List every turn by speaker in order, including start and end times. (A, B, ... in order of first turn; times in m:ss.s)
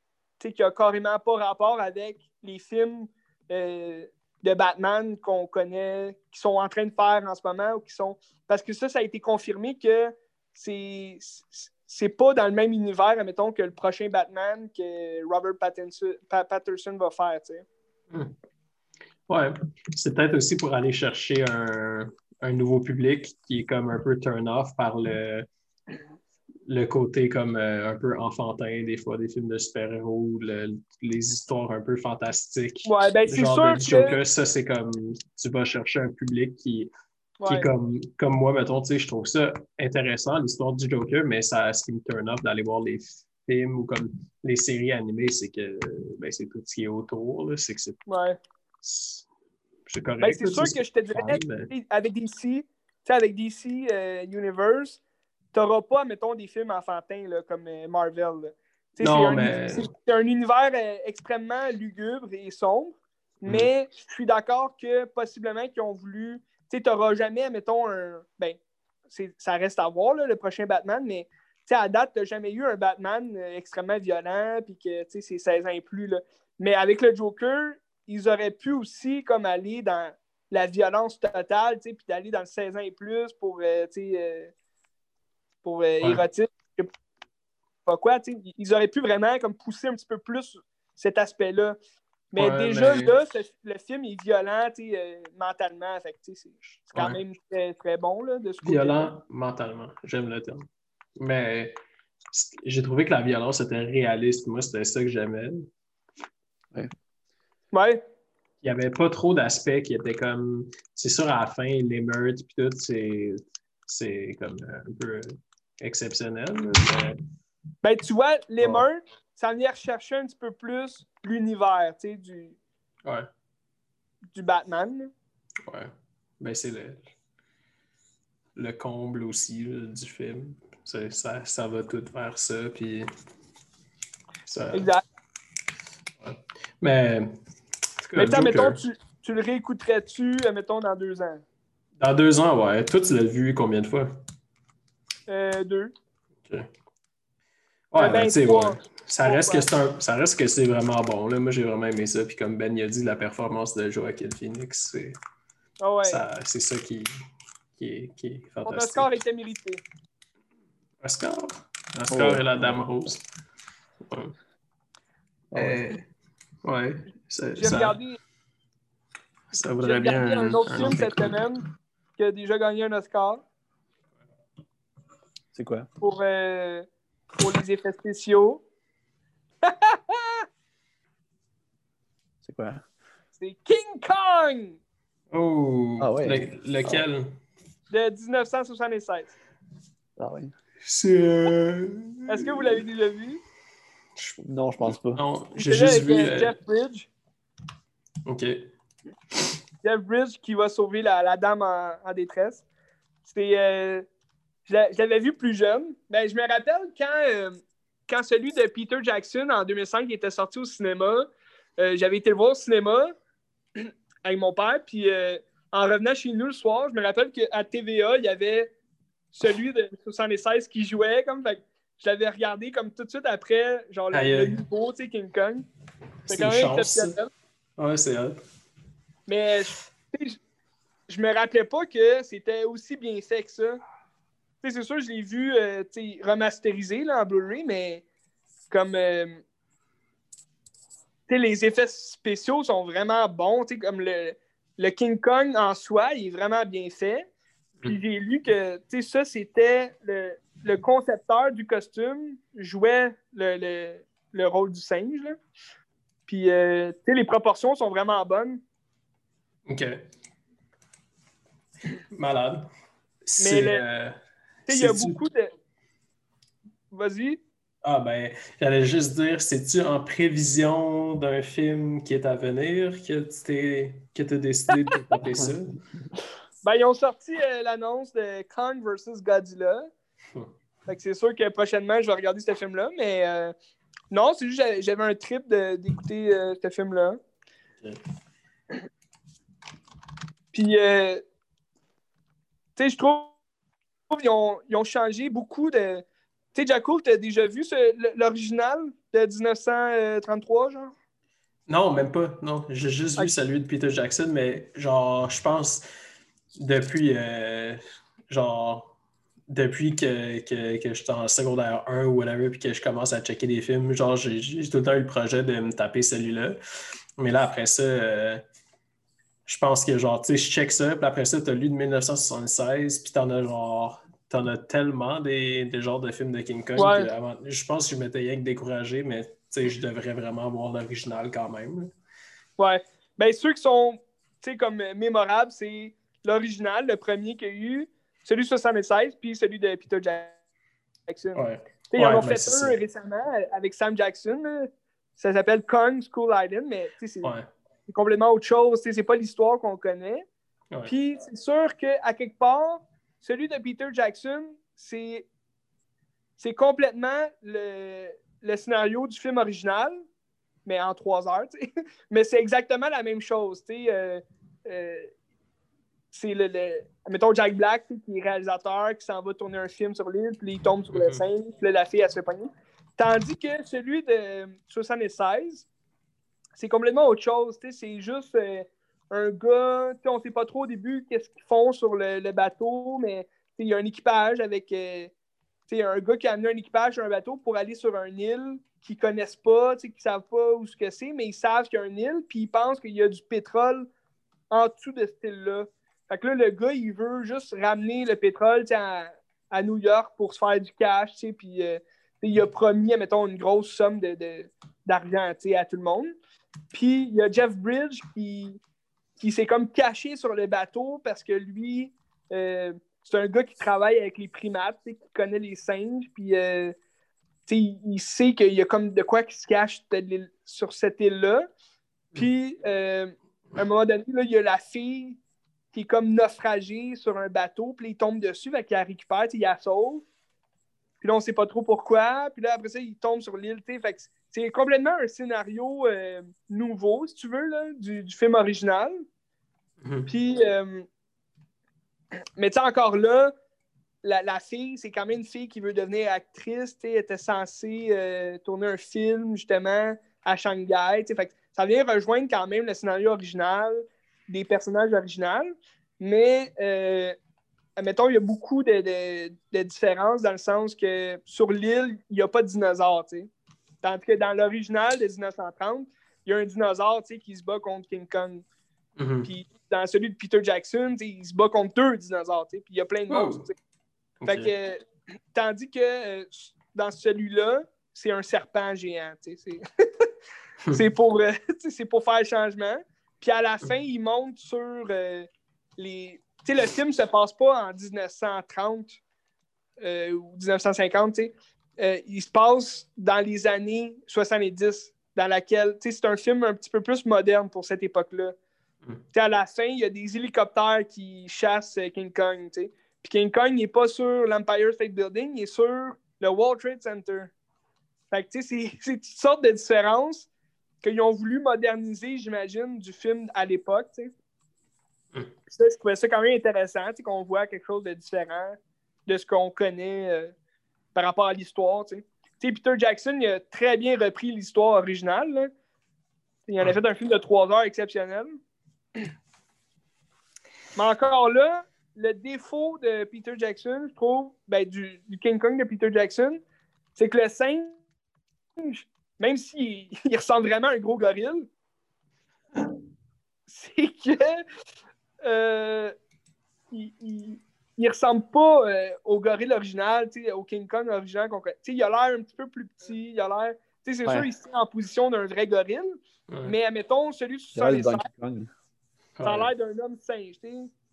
0:00.4-0:17.6 A
0:19.3-0:25.5 B
0:26.7-0:36.9 B
0:32.8-0:34.2 A
0:37.4-0:37.7 A
0:37.5-0:48.0 B
0:48.1-0:48.4 A
0:48.8-0:49.3 B
0:49.9-0:51.7 B
0:50.2-0:55.0 A
0:55.5-1:08.6 A
0:59.0-0:59.9 B
1:09.1-1:24.5 A
1:25.6-1:26.9 A
1:27.9-1:31.8 A
1:32.3-1:39.1 A
1:32.4-1:33.1 B
1:38.6-1:41.8 B
1:42.3-1:45.7 B
1:47.7-1:48.0 A
1:48.6-1:57.2 B
1:57.8-2:02.6 A
2:04.3-2:05.1 A
2:05.7-2:07.1 B
2:08.6-2:13.1 B
2:14.5-2:14.9 B
2:14.7-2:15.0 A
2:16.2-2:17.4 B
2:18.0-2:18.8 B
2:18.2-2:21.4 A
2:22.0-2:24.2 B
2:25.3-2:25.9 A
2:27.9-2:35.2 B
2:28.0-2:29.7 A
2:35.8-2:36.2 A
2:36.0-2:37.1 B
2:37.8-2:39.1 B
2:38.7-2:39.8 A
2:41.0-2:43.2 B
2:42.1-2:42.8 C
2:44.0-2:44.4 B
2:45.5-2:45.9 C
2:45.5-2:46.0 B
2:46.6-2:48.0 B
2:47.6-2:48.2 A
2:49.5-2:51.5 B
2:49.8-2:51.6 A
2:52.2-2:53.4 A
2:55.5-2:55.9 C
2:56.0-2:56.9 A
2:57.4-2:58.6 A
2:59.6-3:00.5 A
3:02.4-3:02.8 C
3:03.4-3:04.8 A
3:05.3-3:07.4 B
3:06.0-3:07.0 C
3:07.9-3:09.4 A
3:10.2-3:10.5 C
3:10.8-3:12.8 B
3:12.3-3:13.4 A
3:14.2-3:16.5 B
3:14.4-3:15.2 C
3:15.6-3:17.1 A
3:18.3-3:18.6 B
3:19.8-3:22.6 A
3:23.2-3:24.1 A
3:24.7-3:33.1 A
3:33.8-3:38.7 A
3:39.3-3:45.7 A
3:44.1-3:44.6 B
3:46.3-3:47.1 B
3:46.3-3:47.3 A
3:47.8-3:48.4 B
3:49.3-3:50.4 A
3:51.1-3:53.8 A
3:54.6-3:58.0 A
3:58.7-3:59.4 A
4:01.3-4:07.3 A
4:07.9-4:15.4 A
4:16.3-4:18.6 A
4:19.7-4:20.0 B
4:22.1-4:22.7 B
4:23.3-4:25.2 B
4:23.4-4:23.8 A
4:24.7-4:25.5 A
4:26.9-4:27.4 A
4:27.8-4:35.8 B
4:36.6-4:39.9 A
4:40.9-4:43.5 A
4:44.1-4:47.2 A
4:50.5-4:51.2 A
4:52.8-4:53.4 A
4:54.1-5:00.9 A
5:01.7-5:05.9 B
5:06.6-5:08.9 B
5:09.5-5:16.6 B
5:17.2-5:18.4 B
5:19.5-5:31.9 B
5:26.8-5:27.1 A
5:32.6-5:40.4 A
5:41.1-5:41.4 A
5:41.4-5:42.8 B
5:41.9-5:47.3 A
5:47.2-5:47.5 B
5:47.9-5:50.3 A
5:50.9-5:55.3 A
5:56.4-6:00.0 A
6:00.6-6:05.1 A
6:06.1-6:15.7 A
6:10.9-6:11.2 B
6:16.6-6:25.1 A
6:25.7-6:33.9 A
6:34.5-6:46.1 A
6:46.7-6:48.6 A
6:49.2-6:56.8 A
6:57.5-7:01.5 A
7:02.2-7:05.2 A
7:05.7-7:10.0 A
7:11.0-7:19.0 A
7:19.8-7:20.1 B
7:20.1-7:20.9 A
7:22.4-7:23.3 A
7:24.0-7:37.2 A
7:37.8-7:43.3 A
7:43.8-7:48.4 A
7:49.0-7:49.3 B
7:49.3-7:53.5 A
7:53.1-7:53.5 B
7:54.2-7:54.5 B
7:54.3-7:54.8 A
7:55.3-8:00.1 A
8:00.7-8:09.0 A
8:09.8-8:18.4 A
8:19.1-8:27.3 A
8:28.1-8:30.3 A
8:30.8-8:34.1 A
8:35.5-8:40.3 A
8:41.0-8:45.5 A
8:46.5-8:48.3 A
8:50.8-8:56.4 A
8:57.0-8:57.8 A
8:58.6-9:01.5 A
9:03.5-9:04.4 A
9:05.2-9:05.9 A
9:06.7-9:18.0 A
9:16.3-9:16.5 B
9:17.6-9:18.5 C
9:19.2-9:19.5 B
9:19.2-9:20.7 A